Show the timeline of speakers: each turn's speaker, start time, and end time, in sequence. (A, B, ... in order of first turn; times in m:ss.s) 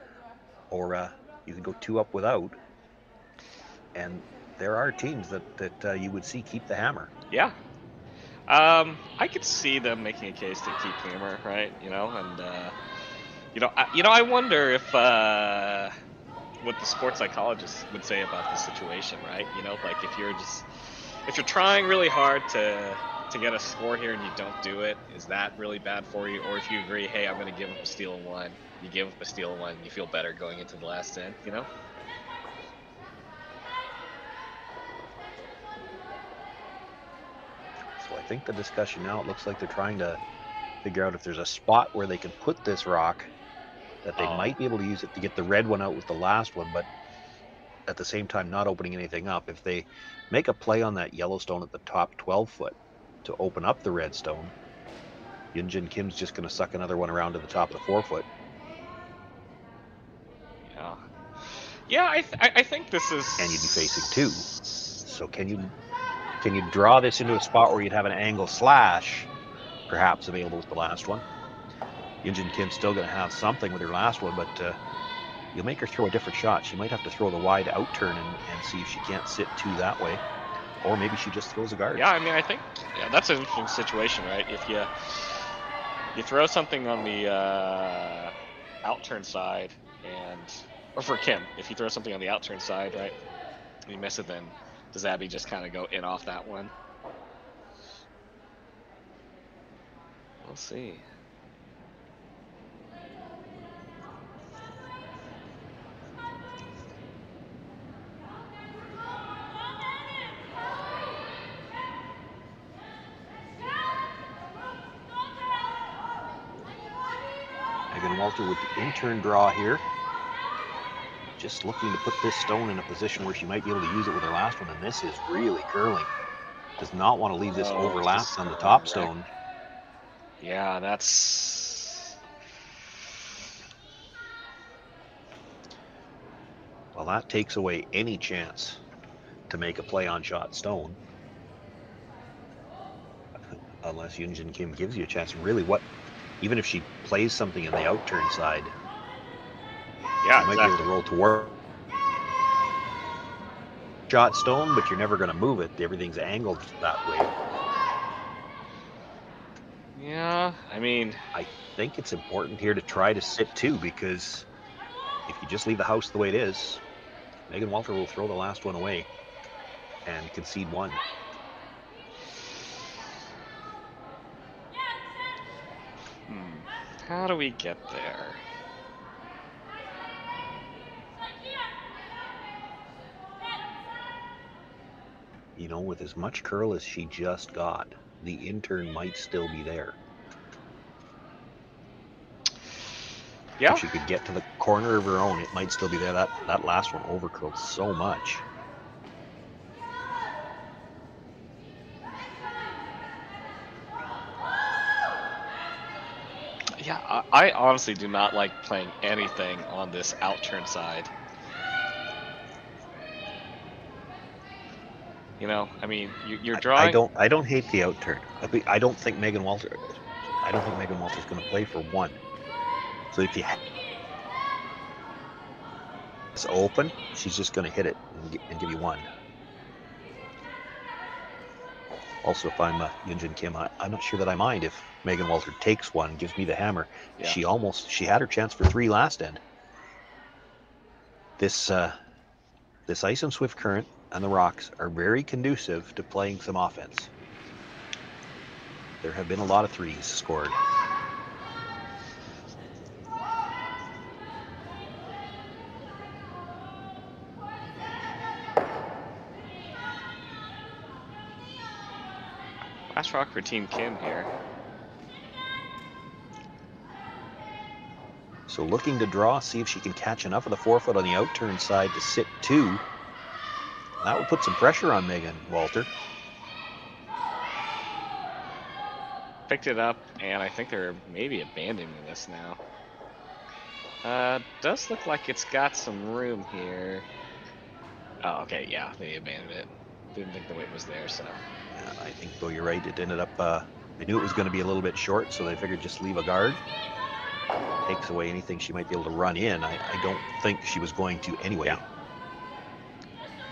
0:00.7-0:02.6 A
0:03.9-0:07.1 A
0:07.3-0:07.6 B
0:08.5-0:12.8 B
0:13.5-0:15.9 B
0:16.6-0:31.7 B
0:38.0-0:40.2 A
0:40.8-0:43.3 A
0:44.0-0:46.9 A
0:44.2-0:44.6 B
0:47.9-0:54.5 A
0:55.5-0:58.3 A
1:00.7-1:05.0 B
1:03.4-1:04.5 A
1:05.0-1:05.7 A
1:06.4-1:09.3 A
1:09.9-1:11.2 A
1:12.2-1:14.8 A
1:15.5-1:20.2 A
1:20.8-1:22.1 A
1:21.9-1:25.5 B
1:26.1-1:33.2 B
1:33.9-1:36.7 B
1:40.4-1:41.0 B
1:57.9-1:59.8 A
2:01.4-2:06.1 A
2:06.8-2:09.3 A
2:07.5-2:09.1 B
2:10.4-2:12.2 B
2:16.9-2:18.8 A
2:19.5-2:21.0 A
2:23.5-2:25.8 A
2:26.4-2:28.7 A
2:30.2-2:30.8 B
2:30.3-2:31.6 A
2:34.1-2:37.3 A
2:40.0-2:41.2 B
2:41.3-2:44.5 A
2:45.3-2:46.8 A
2:47.5-2:49.1 A
2:50.0-2:51.0 A
2:56.3-2:58.4 B
3:05.6-3:10.0 A
3:13.6-3:13.8 B
3:13.7-3:18.4 A
3:26.8-3:31.1 B
3:35.4-3:37.0 B
3:36.5-3:42.2 A
3:43.1-3:43.6 A
3:46.4-3:49.1 A
3:52.2-3:59.4 A
4:01.4-4:02.0 A
4:02.9-4:07.1 A
4:09.0-4:10.6 A
4:22.9-4:24.3 B
4:28.5-4:32.8 A
4:34.0-4:35.9 A
4:39.5-4:42.6 B
4:44.0-4:47.1 B
4:48.2-4:51.4 B
4:51.7-4:56.6 A
4:57.8-5:01.8 A